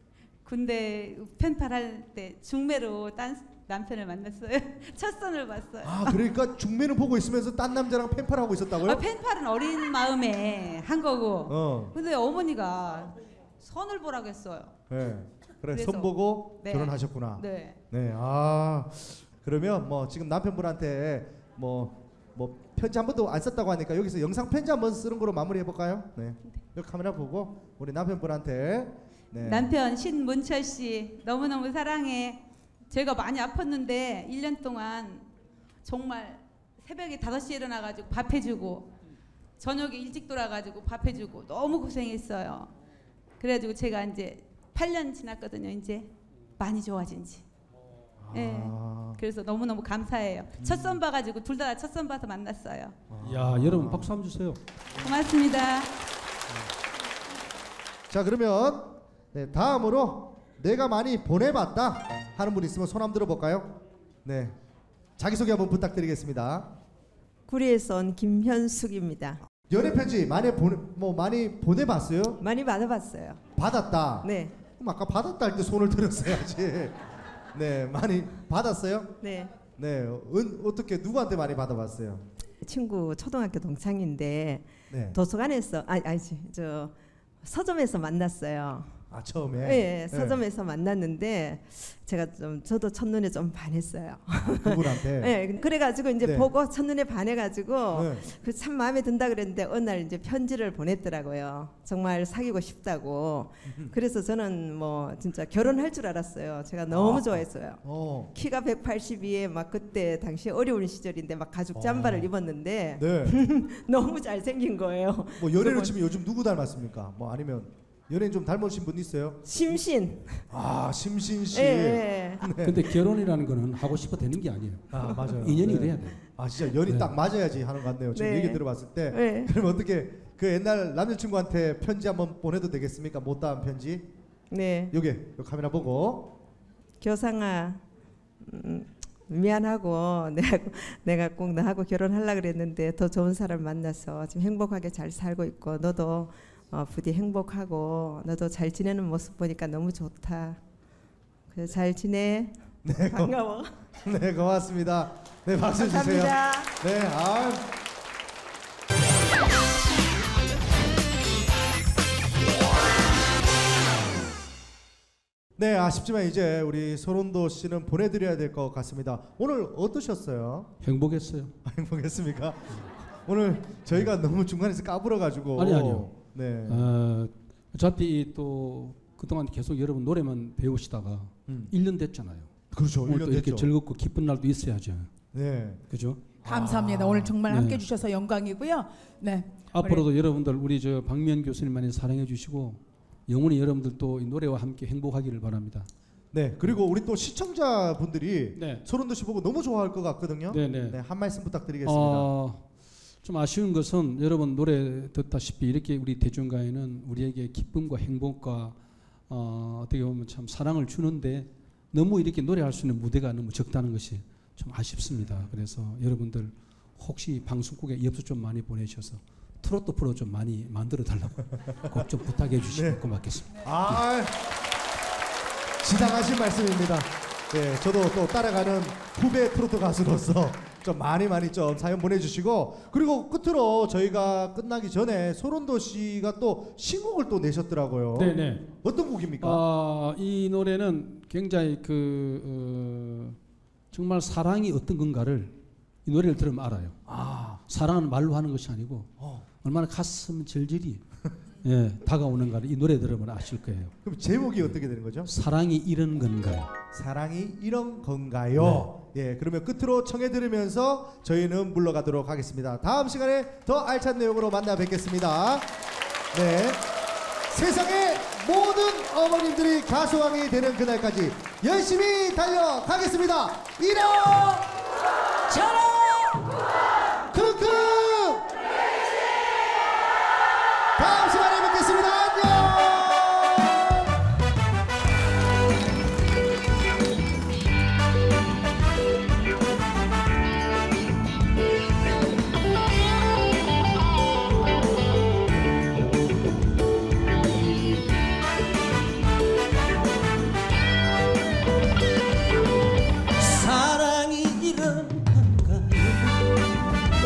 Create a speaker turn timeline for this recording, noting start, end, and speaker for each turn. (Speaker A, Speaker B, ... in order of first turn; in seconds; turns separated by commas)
Speaker A: 0.4-6.2, Speaker B: 5.8-9.0, Speaker A: 8.8-14.8, Speaker B: 11.5-11.9, Speaker B: 14.9-29.7, Speaker A: 15.7-17.8, Speaker A: 29.4-35.3, Speaker A: 35.8-38.9, Speaker A: 39.6-42.7, Speaker A: 43.4-47.4, Speaker B: 48.2-49.2, Speaker A: 48.3-53.0, Speaker B: 50.6-51.0, Speaker B: 53.1-54.1, Speaker C: 53.2-54.6, Speaker A: 55.0-55.9, Speaker B: 58.1-64.5, Speaker B: 65.2-66.7, Speaker D: 67.5-69.4, Speaker B: 69.7-72.4, Speaker D: 72.4-73.4, Speaker B: 73.6-77.0, Speaker D: 74.2-74.5, Speaker B: 77.5-79.1, Speaker D: 79.2-79.5, Speaker B: 79.7-82.2, Speaker D: 82.6-89.0, Speaker B: 84.9-85.2, Speaker B: 89.1-90.4, Speaker D: 89.6-107.8, Speaker B: 94.4-95.3, Speaker B: 96.2-96.5, Speaker B: 97.9-98.2, Speaker B: 106.9-108.3, Speaker D: 108.3-115.9, Speaker B: 111.7-112.3, Speaker B: 113.0-113.4, Speaker B: 115.4-119.7, Speaker D: 119.5-120.4, Speaker B: 120.5-122.9, Speaker D: 121.5-122.5, Speaker C: 122.6-126.2, Speaker B: 124.9-134.1, Speaker C: 126.8-127.1, Speaker D: 128.1-129.5, Speaker D: 134.5-134.9, Speaker B: 134.9-136.3, Speaker D: 137.0-137.8, Speaker D: 138.4-150.6, Speaker D: 151.5-153.7, Speaker B: 152.8-153.3, Speaker B: 154.0-157.7, Speaker D: 155.8-156.7, Speaker B: 165.6-170.7, Speaker C: 170.8-171.5, Speaker B: 171.6-176.9, Speaker C: 175.6-176.1, Speaker C: 176.7-185.1, Speaker B: 182.7-183.7, Speaker B: 185.3-185.8, Speaker C: 185.9-186.2, Speaker B: 186.4-187.4, Speaker E: 186.4-190.1, Speaker C: 187.5-187.8, Speaker C: 189.7-195.9, Speaker B: 196.3-202.3, Speaker C: 198.6-198.8, Speaker C: 200.5-201.0, Speaker C: 201.8-202.7, Speaker C: 203.2-208.8, Speaker C: 209.3-224.0, Speaker B: 222.7-223.0, Speaker B: 223.6-224.4, Speaker B: 225.8-239.6, Speaker C: 238.2-238.7, Speaker C: 239.4-243.4, Speaker C: 243.9-247.0, Speaker B: 247.1-247.6, Speaker C: 247.7-249.1, Speaker C: 249.6-251.0, Speaker C: 251.6-253.9, Speaker B: 254.0-255.3, Speaker C: 255.2-256.7, Speaker B: 256.9-265.7, Speaker C: 258.6-258.9, Speaker B: 266.3-266.8, Speaker B: 267.5-274.7, Speaker E: 275.5-276.5, Speaker B: 277.3-278.5, Speaker B: 281.0-283.9, Speaker C: 303.4-306.6